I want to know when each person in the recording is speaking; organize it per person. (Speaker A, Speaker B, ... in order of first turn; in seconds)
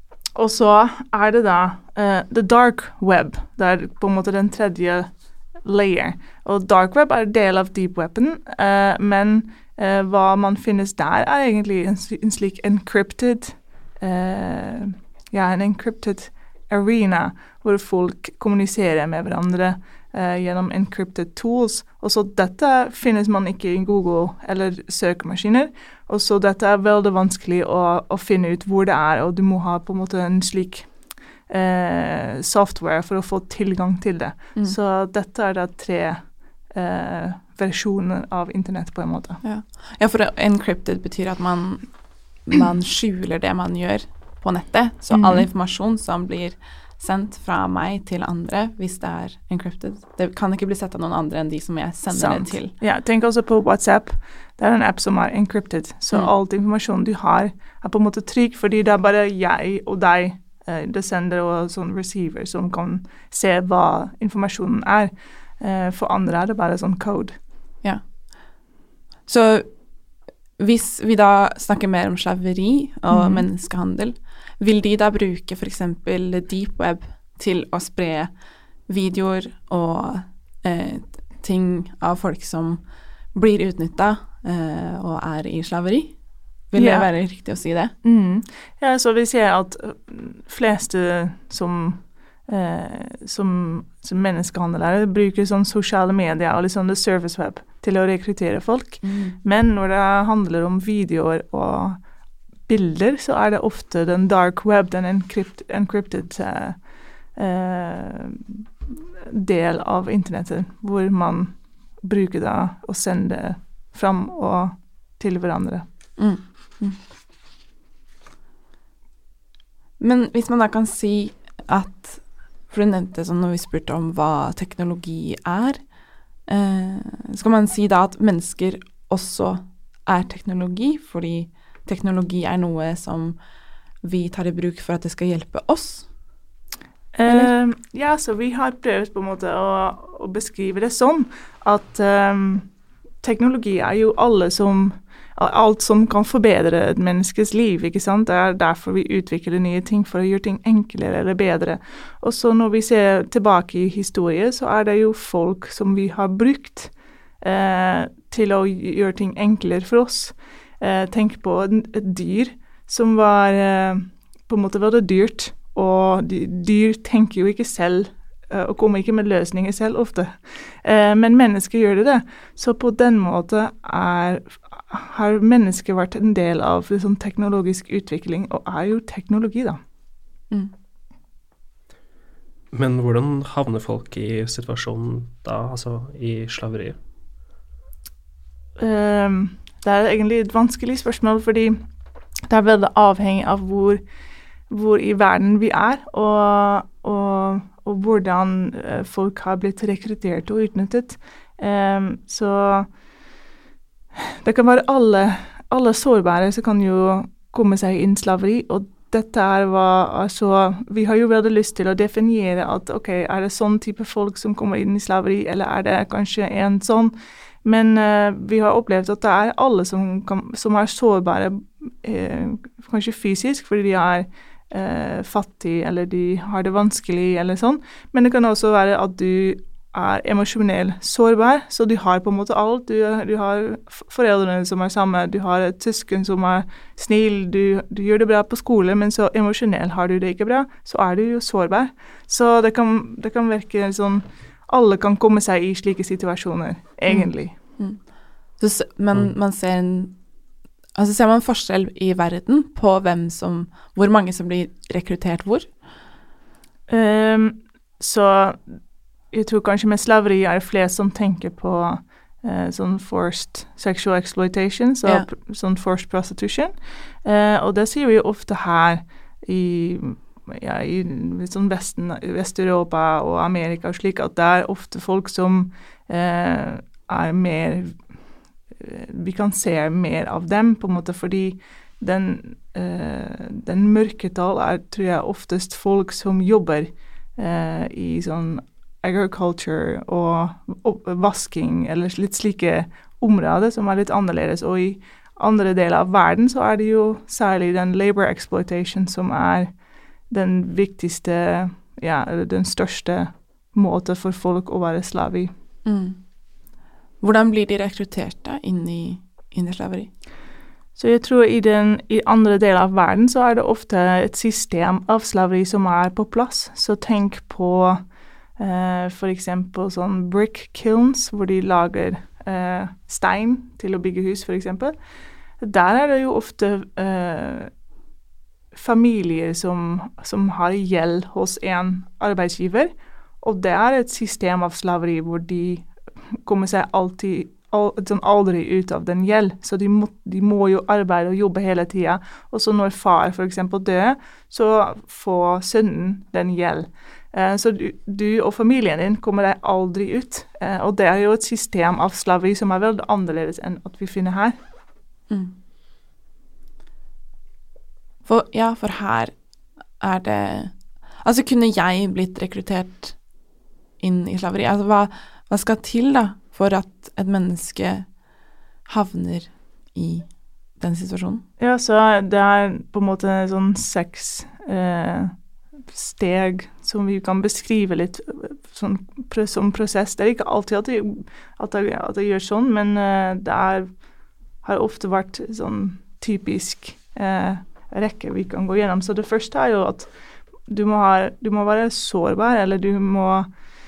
Speaker A: 0.3-39.4, 45.1-45.5, 52.1-67.4, 73.1-73.5, 86.8-87.1, 88.0-102.0, 102.7-106.8, 107.3-115.8, 137.1-142.7, 143.2-179.8, 188.8-191.8, 192.5-194.0, 194.7-202.9, 204.2-247.5, 256.9-258.8, 259.3-278.1, 278.7-299.7, 300.3-305.5, 311.0-318.0, 318.6-325.0, 325.6-327.7, 328.7-354.6, 371.6-375.3, 375.9-384.0, 384.6-390.1, 390.6-393.5
Speaker B: 39.4-41.9, 42.4-52.7, 69.3-69.7, 70.6-78.3, 78.9-82.8, 83.3-86.2, 86.7-87.9, 99.0-99.4, 116.2-117.0, 120.0-125.8, 126.5-133.4, 134.0-136.1, 137.3-137.5, 247.1-248.1, 248.6-250.2, 250.9-255.7, 305.9-306.2, 307.2-310.1, 355.3-355.5, 358.2-359.3, 360.0-363.2, 364.0-368.1, 368.9-371.4
Speaker C: 182.7-187.0